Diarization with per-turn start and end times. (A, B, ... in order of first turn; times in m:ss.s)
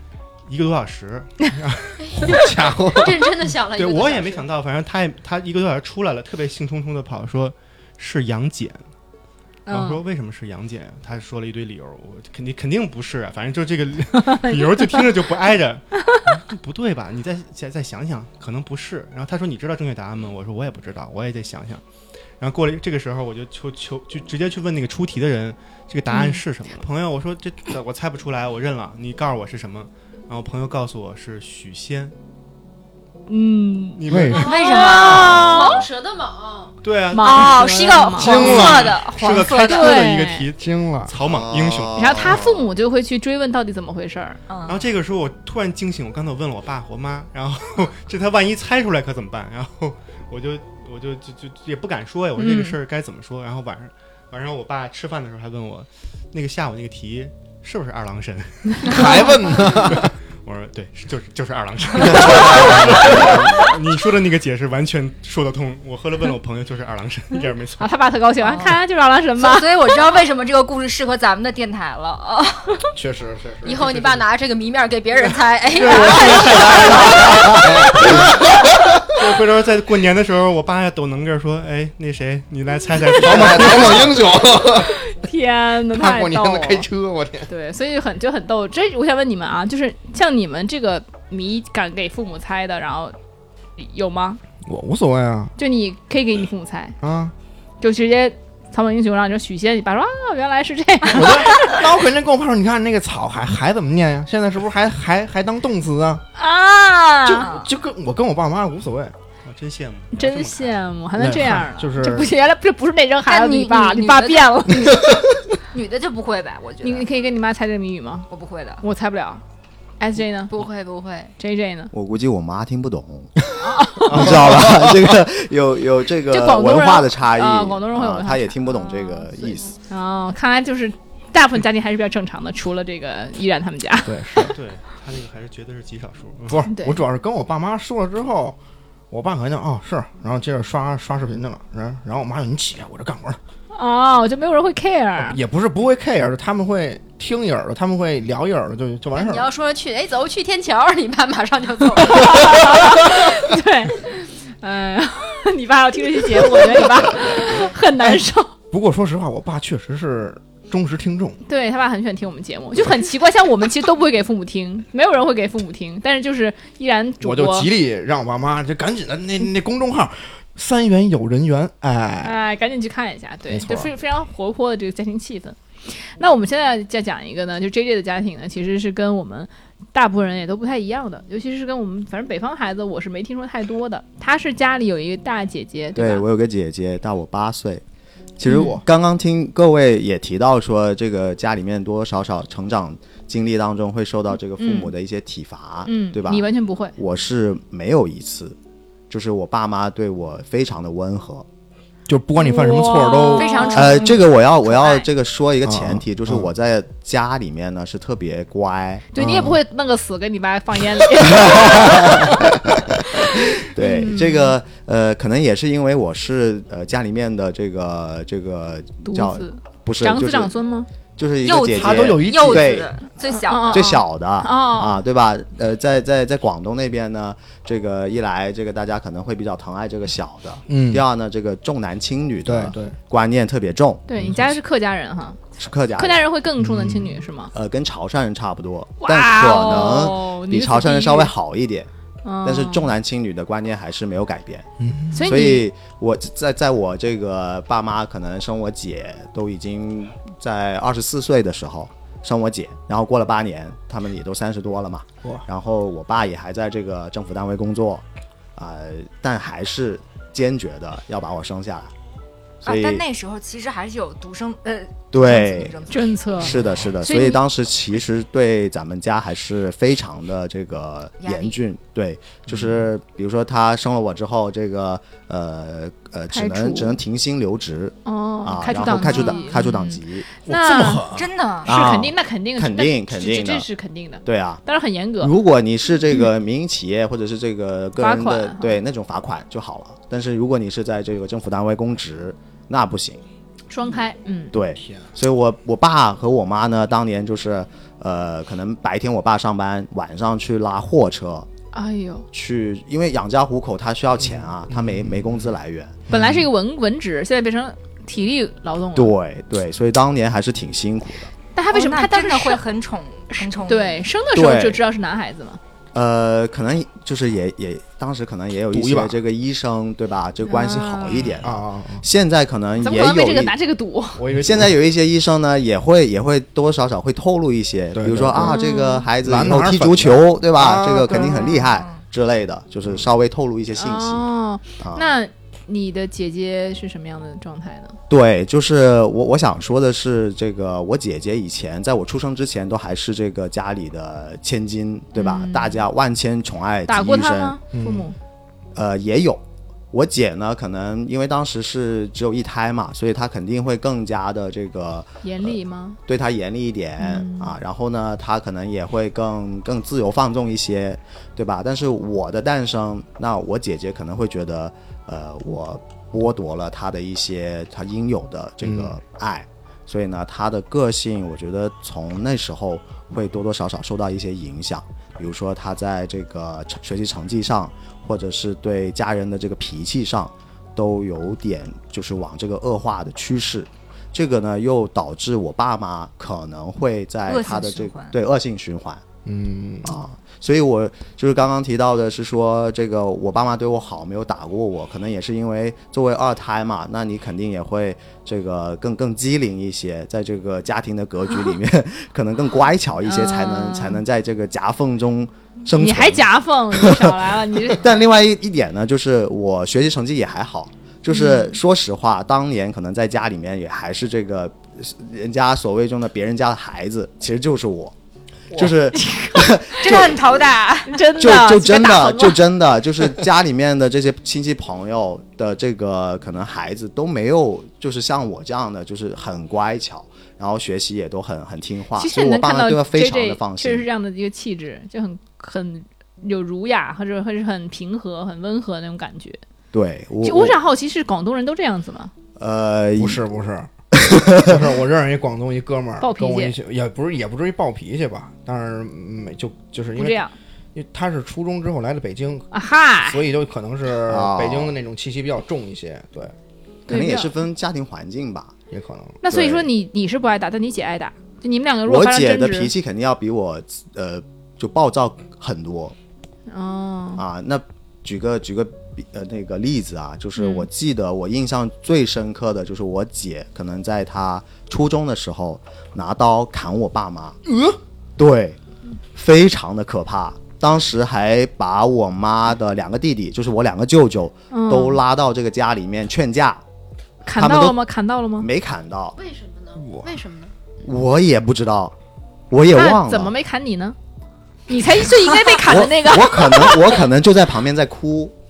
0:00.5-0:02.4 A
0:02.0-0:04.5 B
0:02.2-0:03.5 C
0:03.7-0:08.8 A
0:09.7-0:10.0 D
0:09.7-0:21.8 A
0:14.2-0:15.0 D
0:22.4-0:32.1 A
0:26.1-0:26.4 D
0:33.3-0:34.0 D
0:34.0-0:34.8 A
0:34.1-0:34.5 C
0:34.4-0:35.8 E
0:34.4-0:36.7 B
0:34.6-0:35.8 D
0:36.8-0:42.3 A
0:37.1-0:38.7 D
0:37.1-0:40.0 E
0:38.2-0:39.0 C
0:39.5-0:40.5 D
0:40.6-0:41.2 C
0:41.2-0:42.7 F
0:42.0-0:44.4 D
0:44.5-0:44.9 E
0:44.6-1:07.9 A
0:52.4-0:52.7 D
0:58.8-1:00.1 C
1:02.2-1:03.5 C
1:07.8-1:09.7 D
1:08.4-1:08.8 E
1:09.4-1:12.8 E
1:09.8-1:10.2 B
1:12.9-1:14.2 C
1:13.6-1:18.0 B
1:15.7-1:18.3 A
1:15.9-1:16.4 E
1:17.4-1:18.3 C
1:19.1-1:24.3 A
1:23.1-1:25.0 C
1:24.6-1:26.9 D
1:25.9-1:27.5 C
1:27.5-1:33.1 D
1:33.8-1:34.4 D
1:34.6-1:35.5 C
1:35.6-1:37.0 D
1:37.0-1:37.3 C
1:37.8-1:41.8 D
1:41.1-1:46.2 C
1:46.4-1:47.5 D
1:47.2-1:49.1 C
1:47.4-1:47.7 E
1:49.4-1:50.8 A
1:50.1-1:55.0 D
1:51.2-1:52.3 C
1:53.2-1:57.1 E
1:55.0-1:55.2 C
1:56.8-1:58.3 D
1:58.3-1:58.8 E
1:58.8-1:59.4 D
2:00.0-2:00.5 D
2:00.5-2:01.3 B
2:01.4-2:01.9 D
2:01.9-2:03.3 F
2:03.6-2:04.3 D
2:04.1-2:09.8 F
2:04.1-2:04.9 C
2:06.3-2:14.5 D
2:14.0-2:14.5 C
2:14.5-2:16.6 A
2:16.5-2:18.6 C
2:16.7-2:17.0 D
2:19.1-2:23.4 C
2:23.7-2:25.4 D
2:25.2-2:29.5 C
2:29.1-2:33.2 B
2:32.0-2:38.5 D
2:38.7-2:41.4 C
2:41.4-2:47.7 D
2:47.2-2:52.4 C
2:52.2-3:06.2 D
2:53.5-2:53.9 C
3:05.9-3:07.8 F
3:08.4-3:18.6 F
3:08.4-3:08.8 D
3:14.6-3:14.9 D
3:15.8-3:17.0 D
3:19.1-3:21.4 F
3:22.1-3:23.7 C
3:22.4-3:24.1 D
3:23.3-3:24.3 E
3:23.7-3:29.0 F
3:24.6-3:25.0 D
3:25.6-3:26.5 C
3:29.1-3:34.5 D
3:29.2-3:29.6 C
3:31.2-3:32.5 F
3:33.6-3:40.5 F
3:39.0-3:40.9 D
3:41.2-3:42.9 F
3:41.4-3:43.9 E
3:41.7-3:42.8 C
3:43.4-3:45.0 D
3:43.7-3:54.0 F
3:50.7-3:51.0 C
3:52.4-3:53.0 C
3:54.1-3:55.4 D
3:54.2-3:54.5 C
3:55.6-3:56.3 F
3:56.0-3:57.5 D
3:56.6-3:57.2 C
3:57.5-4:01.9 F
3:59.0-4:01.3 D
4:02.2-4:02.9 D
4:02.4-4:04.6 F
4:04.8-4:05.3 C
4:05.1-4:05.7 D
4:05.2-4:18.0 F
4:18.6-4:21.9 F
4:22.6-4:23.0 F
4:22.6-4:26.6 E
4:25.1-4:25.8 F
4:25.9-4:27.4 D
4:26.4-4:40.3 F
4:31.2-4:31.6 E
4:36.3-4:37.0 D
4:38.0-4:41.0 D
4:39.2-4:39.4 E
4:40.5-4:41.3 C
4:41.1-4:41.7 E
4:41.6-4:43.7 F
4:41.6-4:45.3 D
4:44.2-4:44.6 F
4:45.2-4:53.2 F
4:48.0-4:48.8 D
4:53.7-4:54.5 D
4:54.5-5:01.5 F
4:54.8-4:55.1 C
5:01.7-5:02.3 D
5:02.3-5:06.0 F
5:04.2-5:05.5 C
5:06.1-5:09.1 D
5:06.1-5:06.4 C
5:08.9-5:11.3 F
5:11.5-5:12.6 D
5:11.7-5:14.0 E
5:13.3-5:15.6 D
5:14.3-5:14.8 F
5:15.9-5:23.5 F
5:18.7-5:19.2 C
5:20.4-5:21.3 D
5:21.4-5:22.0 C
5:22.8-5:24.2 D
5:24.2-5:24.7 C
5:24.3-5:34.3 F
5:27.9-5:28.6 C
5:28.4-5:29.1 D
5:29.2-5:31.5 C
5:31.7-5:32.0 E
5:33.8-5:37.9 D
5:34.8-5:35.1 F
5:38.1-5:47.6 F
5:45.1-5:45.8 D
5:46.9-5:48.2 D
5:47.7-5:48.1 C
5:48.7-5:55.5 F
5:55.2-5:56.0 D
5:56.1-6:29.0 F
5:57.0-5:57.5 D
6:08.6-6:09.0 C
6:27.3-6:28.2 E
6:29.2-6:29.9 C
6:29.8-6:57.9 F
6:43.0-6:44.0 D
6:45.8-6:47.9 D
6:51.1-6:51.6 D
6:58.5-7:00.5 F
6:59.0-6:59.4 D
6:59.1-7:01.0 E
7:00.9-7:02.4 D
7:01.2-7:13.9 F
7:12.0-7:19.4 D
7:19.7-7:20.6 F
7:20.2-7:22.1 D
7:22.4-7:23.2 F
7:23.0-7:30.2 C
7:24.0-7:24.5 F
7:26.0-7:26.6 D
7:30.0-7:30.3 D
7:30.7-7:32.5 C
7:32.5-7:33.2 D
7:33.0-7:36.3 C
7:34.1-7:34.7 F
7:36.9-7:38.5 F
7:36.9-7:37.3 D
7:38.7-7:39.2 C
7:39.2-7:42.7 D
7:39.3-7:39.7 F
7:41.8-7:46.0 F
7:46.5-7:47.2 D
7:47.2-7:57.4 F
7:50.4-7:50.7 D
7:57.4-7:57.8 C
7:58.2-7:58.6 F
7:59.1-8:06.6 F
8:04.5-8:05.0 D
8:07.2-8:08.5 D
8:07.3-8:07.8 F
8:08.4-8:09.2 F
8:09.2-8:10.5 B
8:09.8-8:10.2 C
8:10.8-8:11.9 F
8:12.5-8:13.3 F
8:12.7-8:14.0 D
8:14.7-8:17.0 D
8:15.6-8:18.3 F